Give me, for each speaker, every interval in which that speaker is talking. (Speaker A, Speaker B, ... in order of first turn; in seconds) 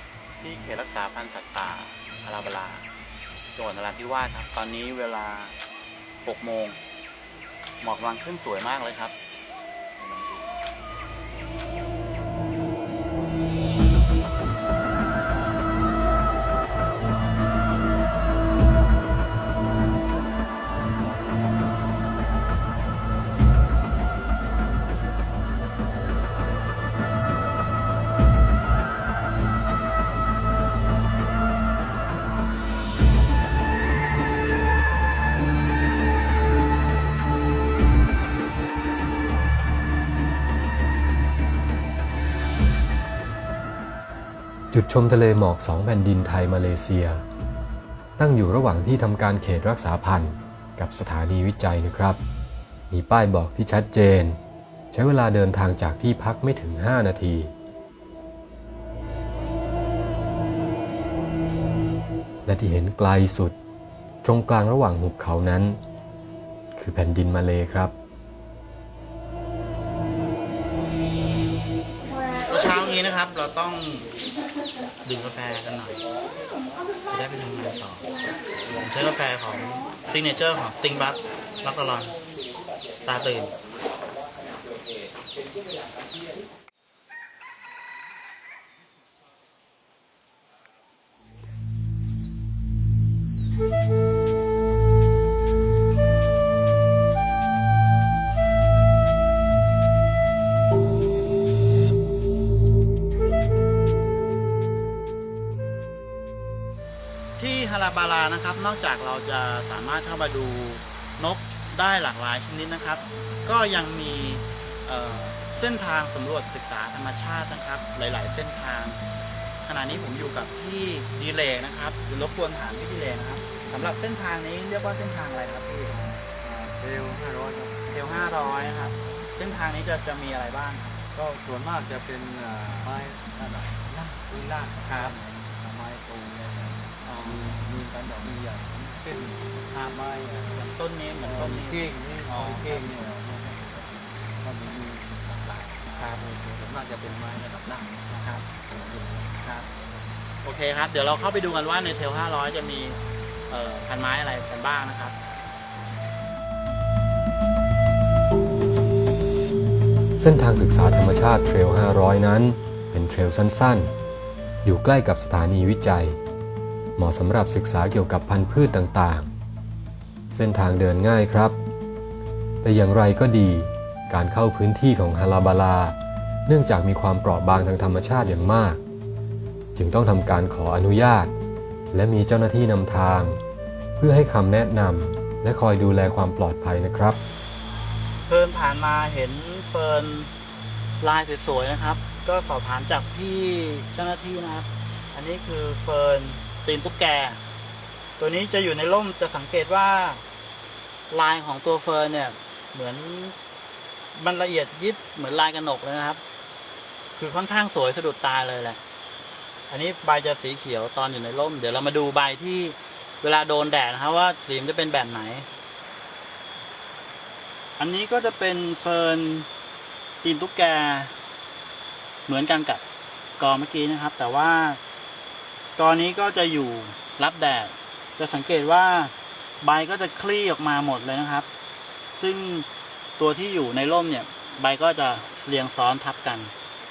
Speaker A: 0.4-2.9, 3.5-5.5, 6.2-6.8, 7.8-9.1, 10.0-10.5, 72.4-74.1, 75.0-76.0, 77.1-78.0, 78.7-82.2, 83.0-83.5, 107.4-119.0, 119.6-125.9, 127.9-131.0, 134.9-135.2, 137.0-137.4, 139.7-140.0, 140.5-142.8, 150.4-155.1, 188.3-190.3, 191.0-197.4, 198.2-200.2, 201.1-203.3, 204.1-206.2, 207.2-208.8, 209.7-215.5, 217.8-219.5, 220.2-221.1, 222.3-222.8, 223.4-224.8, 225.8-231.5, 232.2-232.7, 233.2-236.5
Speaker B: 44.7-47.2, 48.2-52.2, 52.9-54.4, 54.9-57.5, 62.5-63.5, 64.2-65.8, 66.7-67.9, 160.2-163.9, 164.6-166.2, 167.0-169.3, 170.3-171.6, 172.6-178.8, 179.7-181.3, 181.9-183.4, 184.0-187.2
Speaker C: 125.9-127.9, 131.1-140.6, 141.2-149.7